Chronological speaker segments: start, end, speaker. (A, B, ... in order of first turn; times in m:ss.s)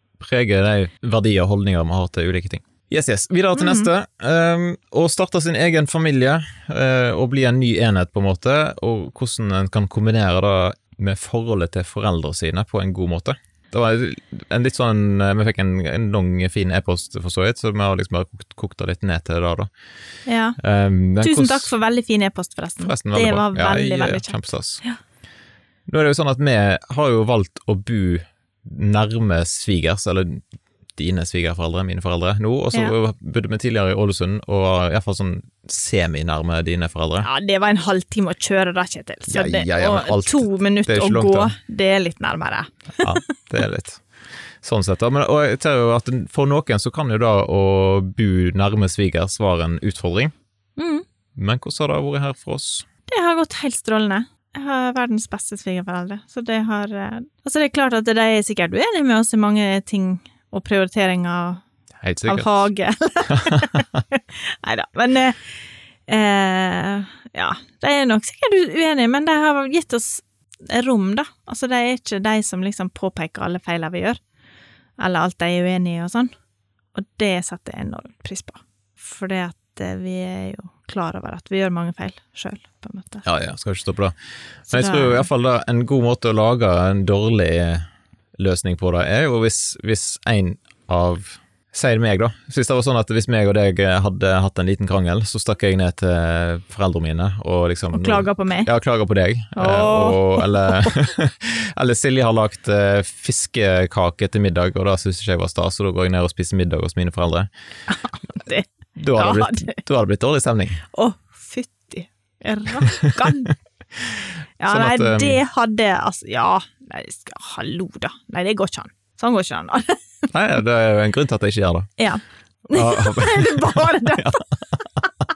0:00.2-0:19.7 A
0:03.6-0:03.9 B
0:20.3-0:20.6 B
0:20.6-0:21.7 A
0:21.2-0:25.0 B
0:22.8-0:24.8 A
0:25.9-0:30.4 A
0:31.0-0:37.3 A
0:37.2-0:43.1 B
0:39.3-0:41.5 A
0:43.0-0:44.0 A
0:44.6-0:50.3 A
0:50.8-0:51.0 B
0:51.4-0:52.9 A
0:53.1-1:01.6 B
1:02.0-1:02.7 A
1:02.3-1:05.5 B
1:03.3-1:04.0 A
1:06.1-1:14.2 B
1:15.0-1:16.3 B
1:16.9-1:23.2 B
1:23.2-1:24.2 A
1:24.7-1:47.5 A
1:24.7-1:25.3 B
1:37.9-1:38.7 B
1:39.6-1:41.0 B
1:47.9-1:49.8 B
1:49.0-1:50.8 A
1:50.9-1:53.5 B
1:52.8-1:55.4 A
1:54.6-2:00.0 B
2:00.3-2:01.9 A
2:02.0-2:04.4 B
2:02.7-2:05.1 A